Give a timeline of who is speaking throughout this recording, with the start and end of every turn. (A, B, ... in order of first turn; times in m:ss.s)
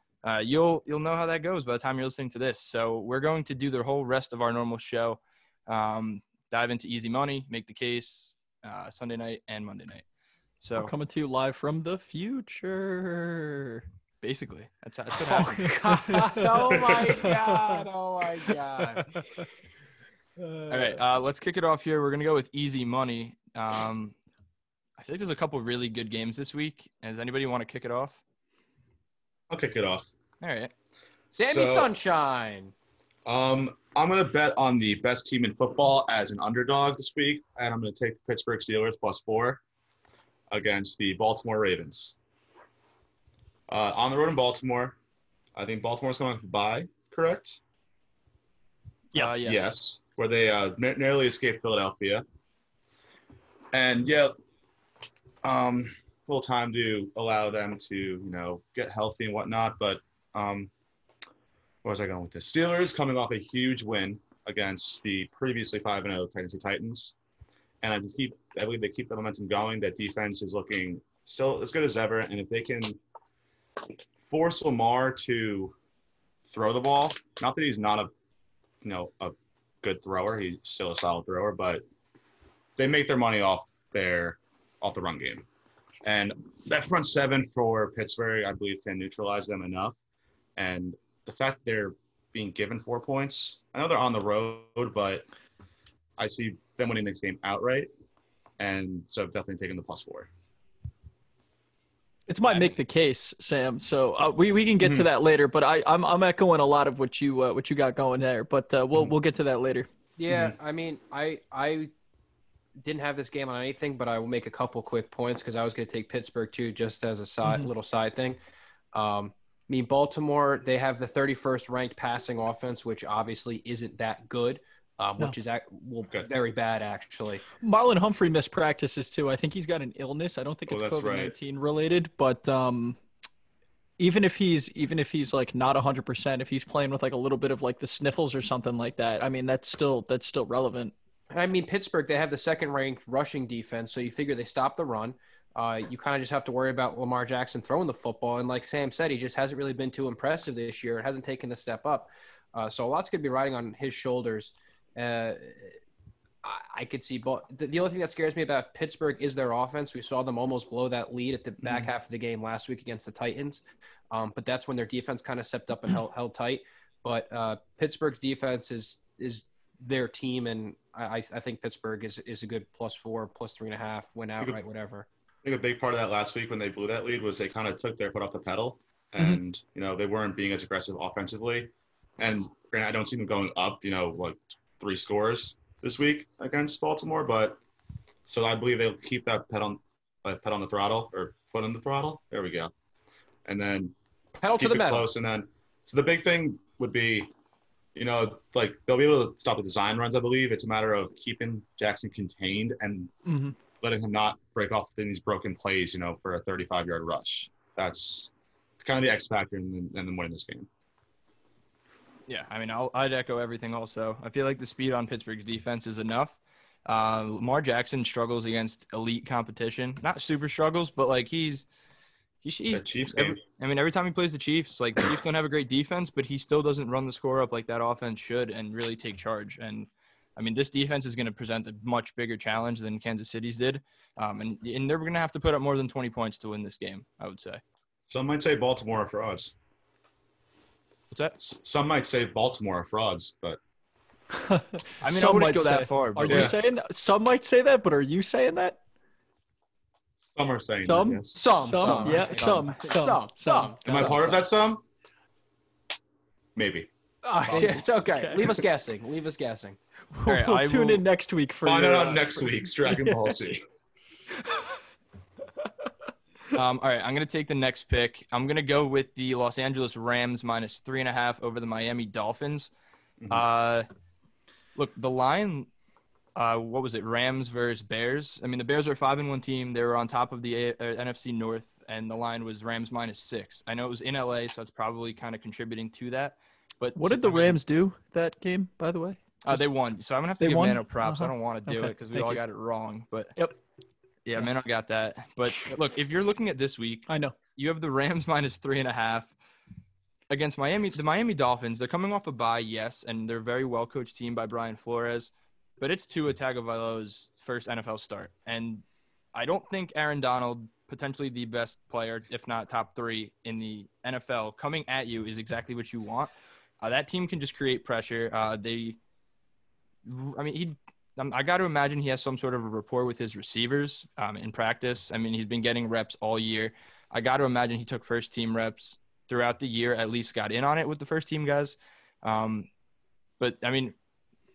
0:00.2-0:10.0 A
0:10.6-0:10.9 A
0:10.8-0:13.9 B
0:14.2-0:15.8 A
0:15.2-0:17.9 B
0:15.6-0:19.1 C
0:16.8-0:17.0 D
0:18.9-0:19.4 B
0:20.4-0:20.9 B
0:20.7-0:24.2 A
0:25.0-0:28.2 A
0:29.5-0:30.1 D
0:30.4-0:30.7 A
0:31.3-0:32.7 C
0:31.4-0:31.9 D
0:33.3-0:39.6 D
0:40.5-0:42.2 D
0:43.7-0:45.0 D
0:45.6-0:47.6 D
0:49.1-0:49.7 A
0:49.4-0:52.2 D
0:53.7-0:54.3 D
0:55.4-1:00.7 D
1:01.8-1:07.2 D
1:07.8-1:13.0 D
1:14.2-1:15.8 D
1:16.5-1:18.1 D
1:18.8-1:21.8 D
1:22.8-1:25.5 D
1:26.0-1:30.0 D
1:30.6-1:35.3 D
1:36.2-1:37.9 D
1:38.6-1:40.3 D
1:42.3-1:49.9 B
1:44.8-1:45.1 D
1:50.2-1:51.9 C
1:52.8-1:58.4 C
1:58.9-2:07.4 C
2:07.6-2:13.0 B
2:10.7-2:11.3 D
2:14.0-2:20.9 B
2:21.3-2:35.8 C
2:36.4-2:55.1 C
2:55.4-3:07.6 D
3:08.3-3:12.7 D
3:13.4-3:14.0 D
3:14.4-3:15.1 C
3:14.6-3:17.3 D
3:18.0-3:23.1 D
3:23.3-3:23.6 B
3:23.8-3:30.7 D
3:32.3-3:41.7 A
3:42.4-3:57.6 A
3:42.7-3:43.4 D
3:58.1-3:59.6 D
4:01.4-4:03.6 D
4:04.3-4:08.8 B
4:05.0-4:06.5 A
4:06.3-4:06.6 D
4:10.4-4:12.6 D
4:10.8-4:14.3 B
4:11.4-4:14.4 C
4:13.8-4:14.8 D
4:16.6-4:16.9 D
4:17.2-4:19.8 C
4:17.5-4:18.6 B
4:20.1-4:23.4 B
4:20.3-4:21.0 A
4:21.6-4:23.6 D
4:24.4-4:24.8 B
4:26.5-4:32.7 A
4:33.2-4:33.4 D
4:33.3-4:33.9 A
4:34.8-4:35.7 A
4:36.4-4:47.6 A
4:47.0-4:49.7 B
4:49.4-4:53.3 A
4:50.4-4:52.4 B
4:54.3-4:59.3 A
4:57.1-4:57.4 B
5:00.3-5:08.8 A
5:09.3-5:19.0 A
5:20.1-5:32.7 A
5:33.4-5:34.0 A